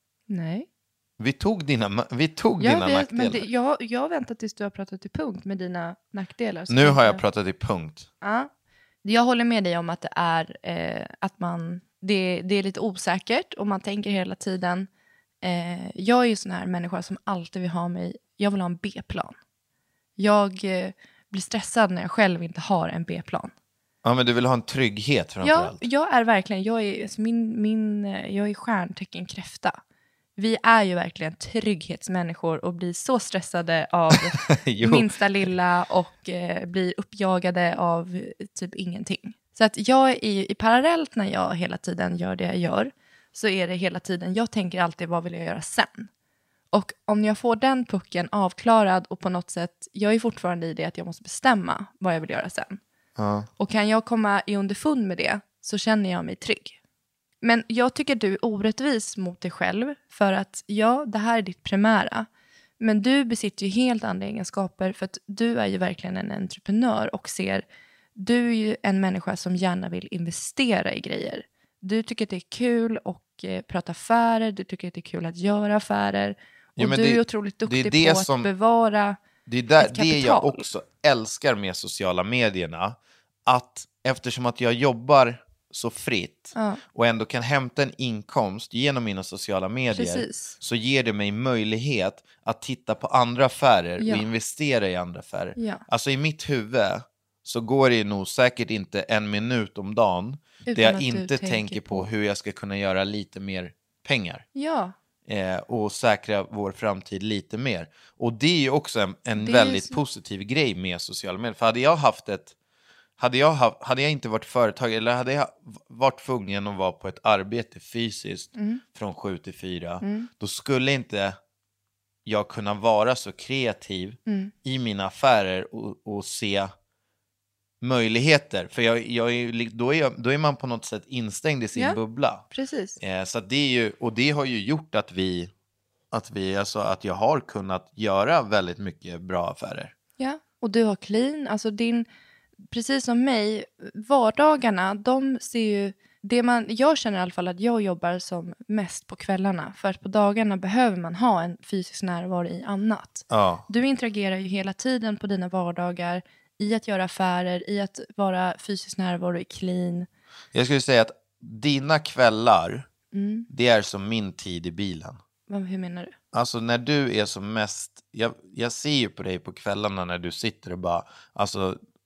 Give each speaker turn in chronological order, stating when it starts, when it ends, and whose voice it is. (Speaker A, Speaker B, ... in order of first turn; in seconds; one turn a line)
Speaker A: 0.3-0.7
Speaker B: 1.2-3.5
Speaker A: 2.6-7.2
Speaker B: 6.7-8.1
Speaker A: 8.2-8.5
Speaker A: 9.0-14.9
Speaker A: 15.4-19.4
Speaker A: 20.2-23.5
Speaker B: 24.0-25.8
Speaker A: 25.4-29.8
Speaker A: 30.4-46.1
Speaker B: 34.1-35.1
Speaker A: 46.7-52.8
Speaker B: 53.2-53.5
Speaker A: 53.6-56.8
Speaker A: 57.4-62.3
Speaker A: 62.8-67.6
Speaker A: 68.2-79.2
Speaker B: 76.8-78.5
Speaker B: 79.5-104.4
Speaker A: 79.8-80.6
Speaker A: 86.5-86.8
Speaker A: 89.9-90.6
Speaker A: 94.0-94.3
Speaker A: 95.5-95.8
Speaker A: 100.7-102.1
Speaker A: 104.5-104.9
Speaker B: 105.3-112.5
Speaker A: 109.4-110.0
Speaker B: 113.2-121.4
Speaker A: 118.5-118.8
Speaker A: 120.0-120.3
Speaker B: 122.2-126.7
Speaker A: 124.3-124.5
Speaker B: 127.8-132.4
Speaker A: 131.7-132.0
Speaker A: 132.5-133.0
Speaker B: 133.0-135.5
Speaker B: 136.1-139.9
Speaker A: 140.2-142.1
Speaker A: 142.7-160.1
Speaker B: 153.3-153.6
Speaker B: 160.5-162.9
Speaker A: 163.1-163.5
Speaker B: 163.5-165.2
Speaker A: 165.5-166.1
Speaker B: 166.3-171.8